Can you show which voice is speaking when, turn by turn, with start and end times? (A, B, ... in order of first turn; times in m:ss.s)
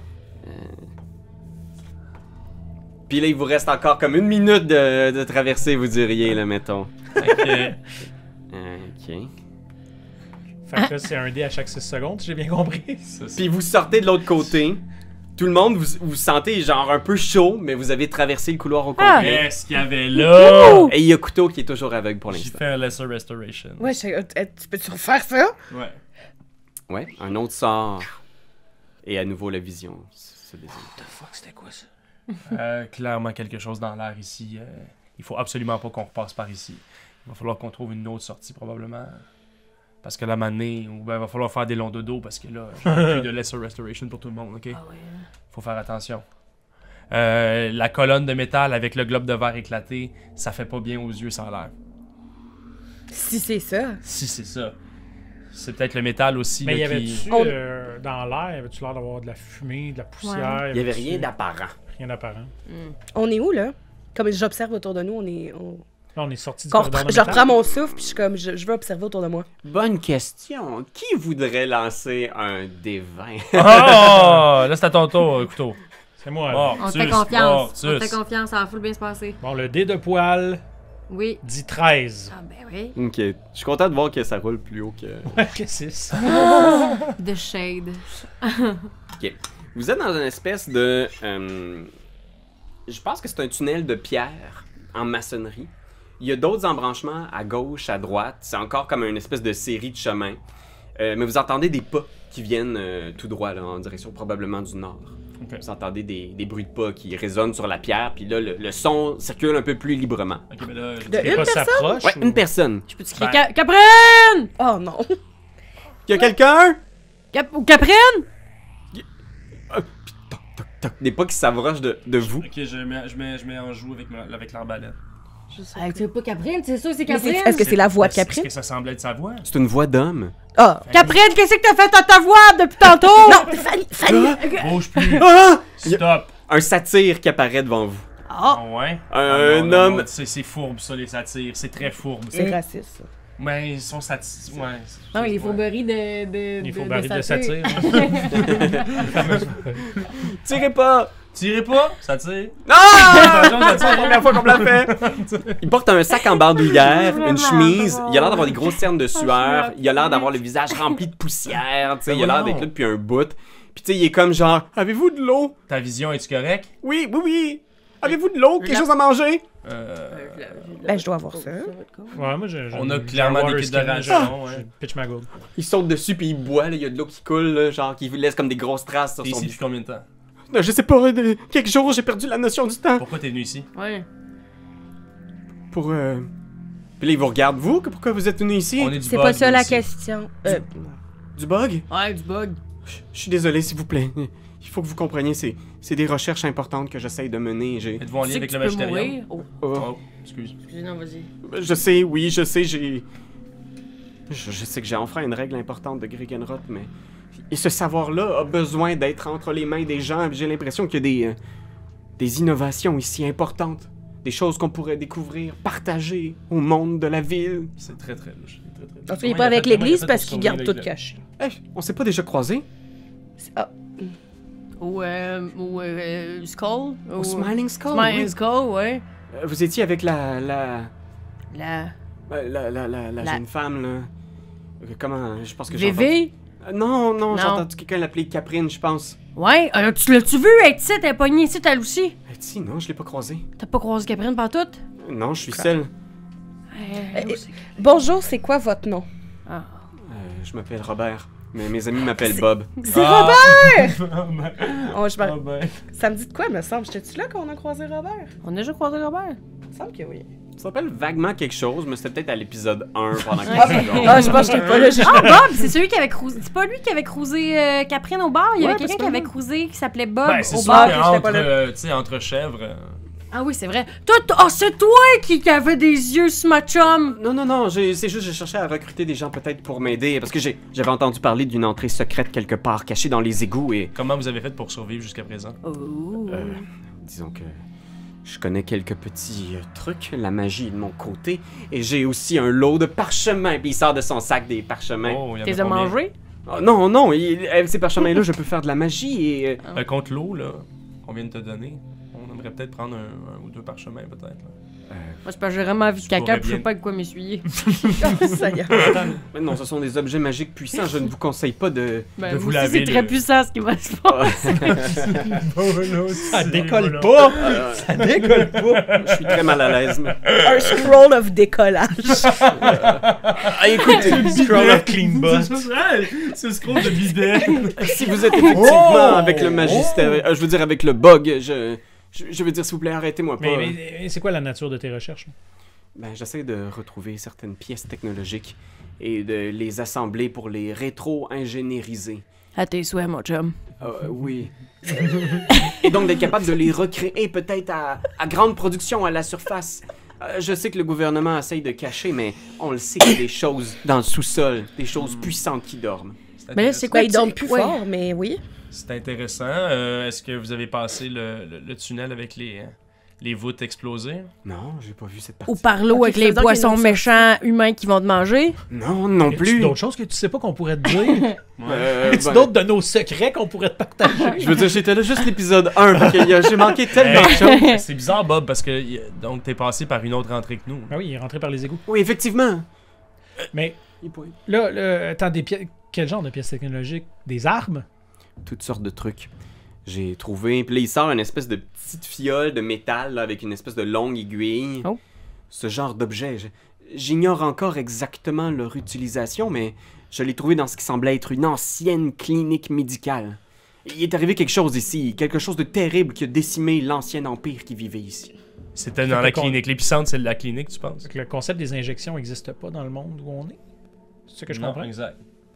0:00.4-0:00.9 A
0:03.1-0:07.0 A
0:07.2-0:07.8 B
0:08.5-0:09.3 A
0:10.6-0:13.1 C
0:13.1-0:13.5 B
0:13.4-0:14.8 A
0:15.4-0:19.5 A
0:19.0-0:19.3 D
0:19.2-0:20.9 B
0:20.3-0:20.9 D
0:20.7-0:22.6 A
0:22.3-0:24.0 B
0:23.8-0:25.6 E
0:25.7-0:26.0 B
0:26.9-0:28.1 A
0:29.0-0:30.9 A
0:31.0-0:31.8 C
0:32.5-0:39.2 B
0:40.0-0:44.8 B
0:42.9-0:43.2 C
0:44.7-0:45.2 D
0:45.5-0:46.2 B
0:47.1-0:51.7 B
0:53.1-0:54.0 E
0:54.0-0:54.8 B
0:55.5-0:57.3 B
0:56.6-1:01.3 C
0:57.3-0:57.6 E
1:00.2-1:00.6 D
1:00.7-1:01.7 A
1:01.9-1:02.5 C
1:02.7-1:02.9 D
1:03.1-1:05.8 E
1:06.1-1:07.5 C
1:06.7-1:09.5 E
1:09.6-1:14.2 A
1:13.5-1:15.8 B
1:16.2-1:16.8 C
1:16.5-1:18.2 B
1:16.8-1:19.4 D
1:19.4-1:20.6 C
1:21.1-1:21.4 D
1:21.4-1:22.3 C
1:22.3-1:23.0 D
1:23.0-1:25.4 A
1:25.3-1:26.4 C
1:26.2-1:28.9 D
1:26.3-1:26.9 B
1:29.2-1:31.9 A
1:32.9-1:40.4 A
1:41.0-1:50.5 A
1:50.5-1:51.6 B
1:51.1-1:52.0 E
1:51.1-1:52.4 C
1:52.0-1:52.8 A
1:52.9-1:54.5 D
1:53.2-1:53.4 B
1:54.6-1:55.2 E
1:56.0-1:56.8 A
1:57.3-1:58.2 D
1:59.7-2:02.5 A
2:02.2-2:05.0 B
2:05.5-2:06.0 E
2:05.6-2:07.7 D
2:07.0-2:08.5 E
2:07.5-2:09.5 B
2:09.4-2:10.3 A
2:10.5-2:10.9 E
2:10.8-2:11.2 B
2:10.9-2:13.6 D
2:13.2-2:14.6 E
2:14.0-2:14.4 A
2:14.4-2:15.2 D
2:14.4-2:16.3 B
2:15.1-2:18.0 A
2:18.3-2:18.6 D
2:18.4-2:22.6 B
2:19.1-2:20.1 A
2:22.3-2:23.1 E
2:23.4-2:25.6 B
2:25.1-2:29.0 D
2:26.6-2:29.9 C
2:28.1-2:30.1 B
2:28.3-2:28.8 A
2:30.1-2:31.1 A
2:31.3-2:35.6 B
2:32.6-2:35.0 A
2:35.6-2:45.5 A
2:36.2-2:41.0 D
2:42.1-2:42.7 B
2:45.7-2:46.7 B
2:46.8-2:49.4 A
2:48.6-2:48.9 D
2:49.6-2:50.7 B
2:50.1-2:52.3 D
2:50.8-2:51.7 E
2:52.1-2:55.3 C
2:52.7-2:54.6 B
2:55.5-2:59.6 A
2:59.2-3:00.0 B
3:00.5-3:03.0 A
3:03.0-3:03.7 B
3:03.7-3:04.0 D
3:05.7-3:06.3 A
3:07.0-3:09.0 A
3:08.8-3:09.8 B
3:09.0-3:11.0 E
3:11.4-3:11.9 A
3:11.9-3:12.6 D
3:12.9-3:18.0 A
3:18.0-3:20.6 B
3:18.2-3:19.5 D
3:19.6-3:19.9 A
3:20.7-3:21.3 D
3:21.4-3:23.0 A
3:24.3-3:26.9 A
3:27.5-3:31.4 A
3:32.2-3:37.7 A
3:37.8-3:40.9 B
3:39.1-3:41.2 E
3:41.4-3:42.6 A
3:43.4-3:44.1 E
3:44.8-3:49.0 D
3:47.2-3:48.4 A
3:49.3-3:50.9 A
3:51.5-3:51.9 D
3:52.3-3:54.1 A
3:54.8-3:59.2 A
3:55.7-3:56.3 D
3:57.3-3:57.7 D
3:59.4-4:02.2 D
4:02.3-4:03.4 A
4:03.6-4:04.8 D
4:05.0-4:05.9 A
4:06.7-4:07.7 D
4:07.1-4:09.1 E
4:09.5-4:09.8 D
4:10.1-4:12.8 A
4:12.8-4:14.0 E
4:12.9-4:15.8 B
4:14.8-4:15.4 E
4:15.9-4:18.3 E
4:18.4-4:19.4 D
4:19.7-4:20.3 E
4:20.6-4:24.6 A
4:23.4-4:31.3 D
4:23.6-4:25.6 E
4:23.7-4:25.1 B
4:28.6-4:29.3 E
4:30.2-4:33.0 B
4:30.6-4:31.5 E
4:33.3-4:37.2 D
4:37.0-4:43.9 A
4:43.9-4:45.6 B
4:45.6-4:46.6 D
4:46.3-4:47.6 A
4:48.2-4:55.2 A
4:55.0-4:56.0 B
4:55.4-4:56.1 D
4:56.5-4:59.6 A
4:59.7-5:04.5 B
5:04.9-5:05.2 A
5:05.2-5:07.7 D
5:06.1-5:06.7 B
5:07.6-5:09.1 B
5:08.0-5:09.1 E
5:08.7-5:09.2 C
5:09.3-5:12.1 A
5:12.2-5:14.9 D
5:12.2-5:13.2 B
5:14.1-5:15.2 A
5:14.7-5:19.5 B
5:16.1-5:19.4 C
5:17.4-5:17.9 A
5:18.9-5:20.2 A
5:20.2-5:20.9 B
5:20.4-5:22.5 E
5:22.2-5:30.2 B
5:22.6-5:24.6 A
5:23.9-5:25.7 C
5:27.8-5:33.8 A
5:33.4-5:35.3 C
5:35.9-5:42.2 A
5:42.6-5:43.5 D
5:43.8-5:56.2 A
5:45.5-5:45.9 D
5:55.0-5:55.3 B
5:56.4-5:57.0 B
5:56.5-5:57.8 D
5:56.9-5:58.4 E
5:58.7-6:04.3 B
6:04.4-6:05.7 A
6:05.4-6:08.6 D
6:05.9-6:07.3 E
6:08.7-6:09.8 A
6:09.3-6:11.4 C
6:11.6-6:11.9 B
6:11.6-6:12.5 A
6:12.0-6:14.8 C
6:14.4-6:17.7 A
6:16.9-6:20.9 B
6:17.2-6:17.8 D
6:20.9-6:21.8 C
6:21.8-6:22.6 A
6:23.5-6:23.8 C
6:24.0-6:24.4 A
6:24.4-6:27.8 C
6:28.4-6:29.3 A
6:29.8-6:34.9 A
6:35.5-6:48.3 A
6:48.7-6:51.1 B
6:49.0-6:49.6 C
6:51.0-6:53.6 C
6:54.3-6:54.9 C
6:54.5-6:55.2 B